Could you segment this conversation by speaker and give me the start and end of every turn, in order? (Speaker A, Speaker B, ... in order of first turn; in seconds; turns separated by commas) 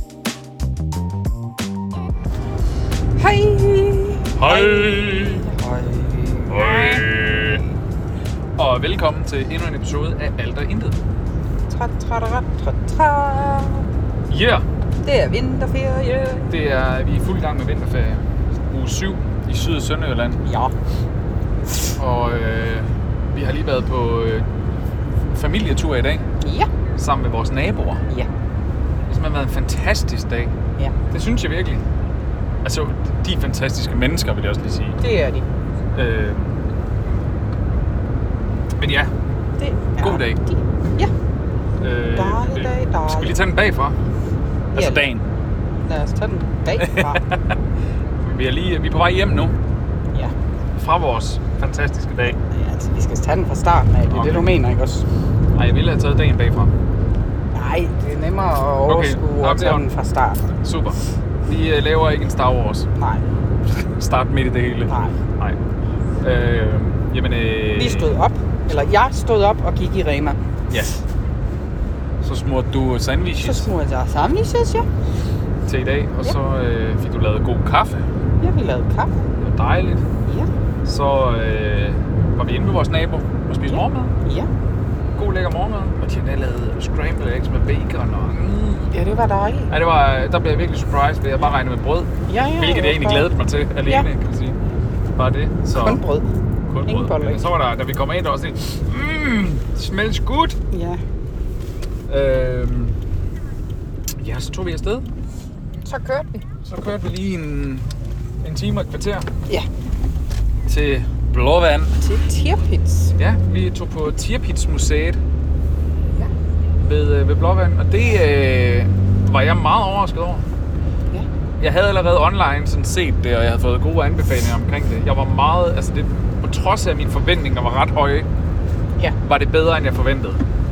Speaker A: 3.2-7.6, Speaker B: 4.4-5.5, Speaker B: 6.5-7.6, Speaker B: 8.6-11.0, Speaker A: 11.7-13.8, Speaker B: 14.3-14.7, Speaker A: 15.0-16.5, Speaker B: 16.5-20.4, Speaker A: 20.4-20.7, Speaker B: 22.0-24.5, Speaker B: 25.3-26.2, Speaker A: 26.4-26.7, Speaker B: 27.0-28.0, Speaker B: 29.1-30.5, Speaker B: 31.1-31.8, Speaker B: 32.6-35.0, Speaker A: 35.0-35.5, Speaker B: 35.9-36.5, Speaker B: 38.8-39.1, Speaker A: 39.6-41.1, Speaker B: 40.0-40.4, Speaker B: 41.8-44.0, Speaker A: 42.1-43.4, Speaker B: 44.7-45.3, Speaker A: 44.8-45.1, Speaker A: 45.8-47.2, Speaker B: 46.8-47.5, Speaker B: 48.2-49.5, Speaker B: 50.8-52.4, Speaker A: 52.5-55.0, Speaker B: 54.1-54.5, Speaker B: 55.5-56.7, Speaker A: 57.5-60.4, Speaker B: 58.9-59.8, Speaker B: 60.6-62.9, Speaker A: 63.0-63.2, Speaker B: 63.8-65.6, Speaker A: 64.9-65.2, Speaker B: 66.2-68.2, Speaker A: 67.7-70.4, Speaker B: 70.7-71.0, Speaker B: 72.2-73.7, Speaker A: 73.4-74.9, Speaker B: 75.7-78.0, Speaker A: 78.4-79.1, Speaker B: 79.4-80.0, Speaker B: 80.8-84.1, Speaker A: 83.7-84.5, Speaker B: 85.2-88.9, Speaker A: 88.9-89.7, Speaker B: 89.7-94.6, Speaker A: 92.3-93.3, Speaker B: 95.2-96.0, Speaker A: 95.7-96.2, Speaker B: 96.7-100.6, Speaker A: 96.8-97.5, Speaker A: 100.7-101.0, Speaker B: 102.1-103.0, Speaker B: 104.2-105.0, Speaker A: 105.8-106.4, Speaker B: 106.6-107.8, Speaker B: 108.4-109.3, Speaker B: 110.7-111.9, Speaker A: 112.0-113.1, Speaker B: 113.2-115.2, Speaker B: 116.8-120.5, Speaker B: 121.6-128.3, Speaker B: 129.2-130.4